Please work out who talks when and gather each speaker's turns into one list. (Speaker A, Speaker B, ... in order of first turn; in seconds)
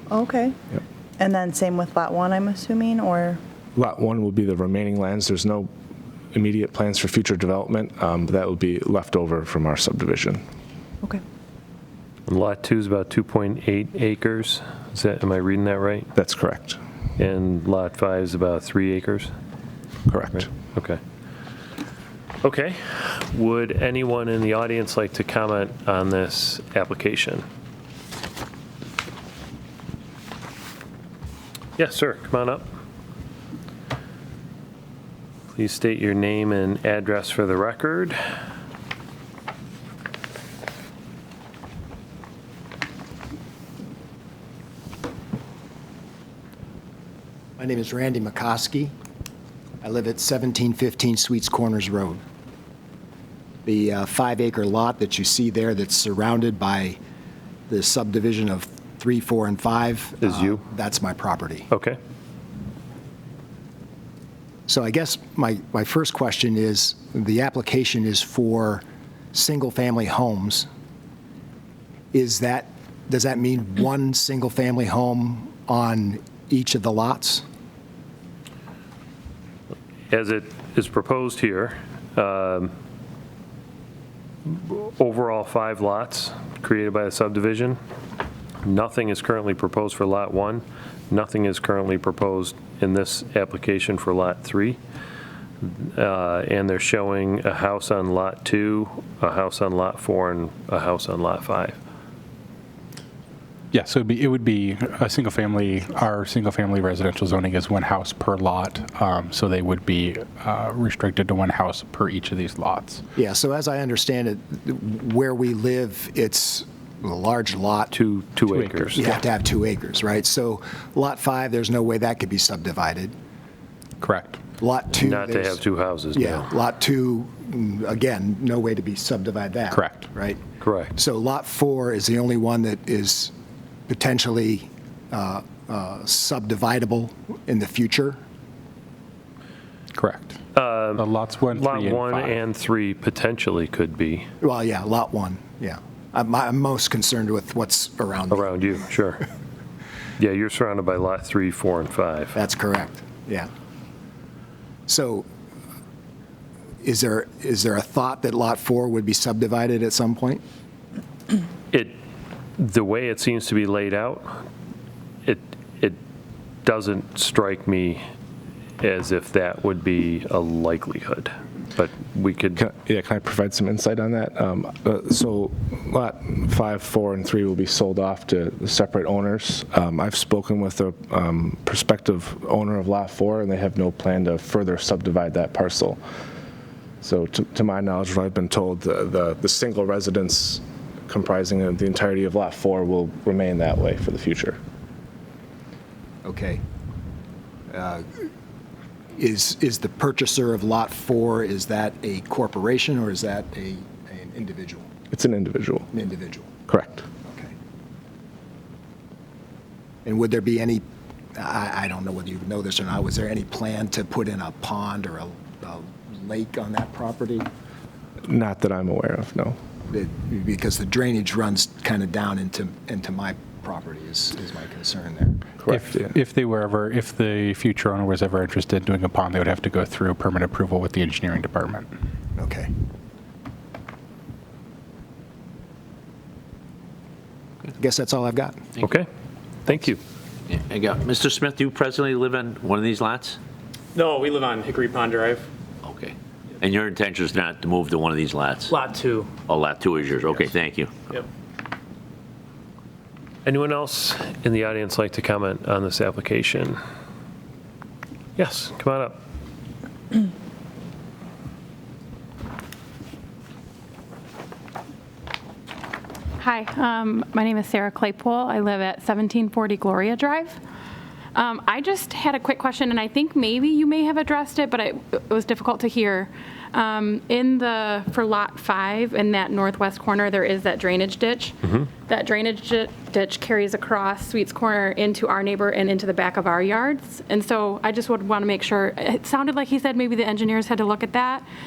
Speaker A: 0.1-0.6, 1.2-3.4
Speaker B: 3.7-5.7, 6.3-10.4, 16.1-16.8, 20.1-20.5, 172.6-186.0, 187.0-194.6, 205.1-205.9, 206.7-207.0, 218.2-219.6, 225.6-226.0
Speaker C: 12.3-16.1, 17.2-19.3, 20.4-21.0, 22.4-27.4, 31.8-32.7, 35.5-38.2, 60.2-60.6, 61.7-62.0, 80.1-82.7, 84.5-87.8, 88.6-94.8, 95.6-101.8, 117.9-119.0, 124.9-126.5, 130.6-130.9, 140.5-144.3, 148.3-149.2, 150.2-152.3, 162.6-164.3, 165.2-166.0, 166.6-168.0, 168.8-172.7, 238.8-239.1, 239.7-240.0, 253.4-256.8, 258.4-259.2
Speaker D: 47.6-48.9, 49.8-52.2, 53.6-57.0, 57.7-61.7, 64.7-70.7, 72.1-77.4, 113.1-117.9, 119.0-123.1, 124.6-125.6, 126.1-130.4, 130.9-133.3, 133.9-138.2, 144.4-148.6, 152.3-153.5, 154.9-155.2, 156.8-160.4, 196.2-196.6, 197.7-198.1, 199.1-204.9, 205.9-206.6, 207.2-207.5, 210.0-210.8, 211.3-217.5, 219.9-225.4, 232.3-232.7, 237.8-238.6
Speaker E: 103.7-113.0, 118.4-119.1, 124.0-124.4, 129.7-130.1, 139.9-140.4, 140.9-142.4, 225.6-231.9
Speaker F: 240.5-243.4, 245.8-251.2
Speaker G: 243.9-245.4, 248.7-249.3
Speaker H: 266.4-270.6, 271.3-281.6, 282.1-291.4